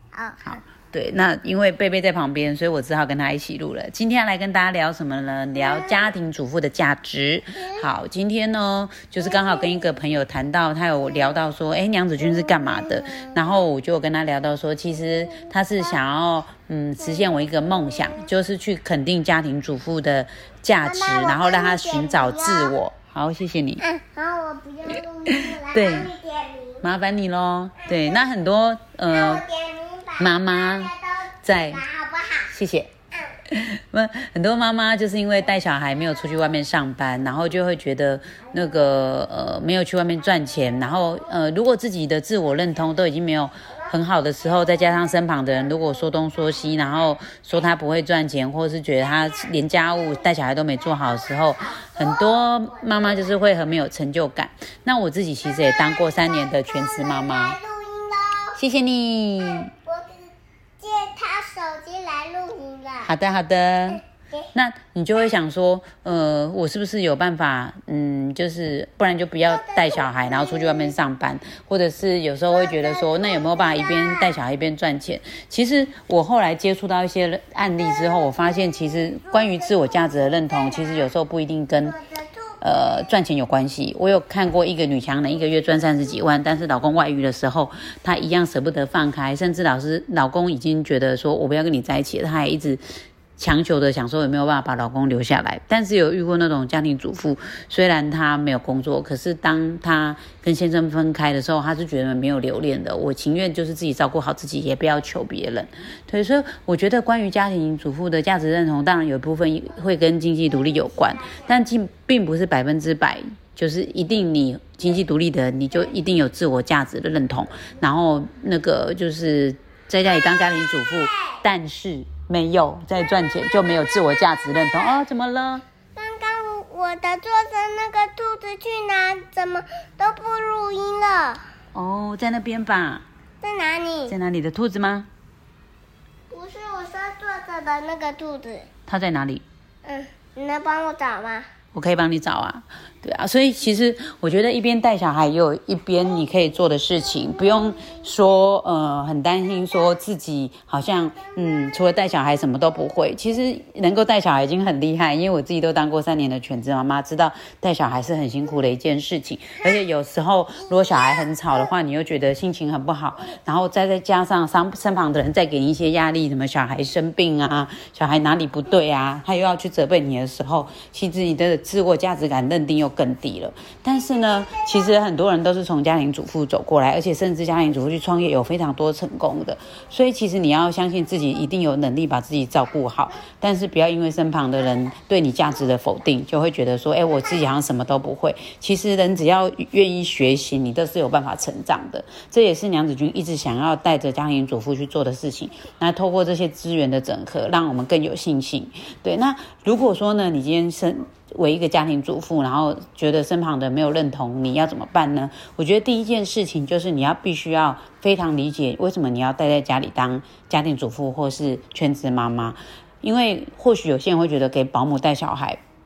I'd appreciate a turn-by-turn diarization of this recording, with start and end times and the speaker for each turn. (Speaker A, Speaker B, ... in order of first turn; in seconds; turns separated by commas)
Speaker A: 0.1-0.6, Speaker B: 0.4-23.8, Speaker A: 7.6-7.9, Speaker A: 9.2-9.9, Speaker A: 12.4-13.4, Speaker A: 17.2-17.5, Speaker A: 20.8-22.7, Speaker A: 23.8-26.8, Speaker B: 25.3-26.1, Speaker B: 26.8-29.4, Speaker A: 27.8-28.2, Speaker A: 29.1-32.5, Speaker B: 30.2-30.9, Speaker B: 31.4-31.8, Speaker B: 32.5-32.9, Speaker B: 33.5-57.6, Speaker A: 44.5-46.4, Speaker A: 49.4-50.3, Speaker A: 50.8-53.0, Speaker A: 55.4-58.6, Speaker B: 58.5-59.7, Speaker A: 59.4-63.1, Speaker B: 63.0-64.0, Speaker A: 63.9-64.5, Speaker B: 64.5-82.0, Speaker A: 69.4-70.9, Speaker A: 72.5-74.4, Speaker A: 78.1-81.1, Speaker A: 81.8-82.8, Speaker B: 82.6-92.8, Speaker B: 93.4-125.6, Speaker A: 120.3-121.4, Speaker A: 125.9-131.4, Speaker B: 131.7-133.0, Speaker A: 133.4-134.2, Speaker B: 134.1-135.1, Speaker A: 136.3-138.7, Speaker B: 138.9-139.4, Speaker A: 139.8-141.5, Speaker B: 141.7-215.6, Speaker A: 147.7-148.0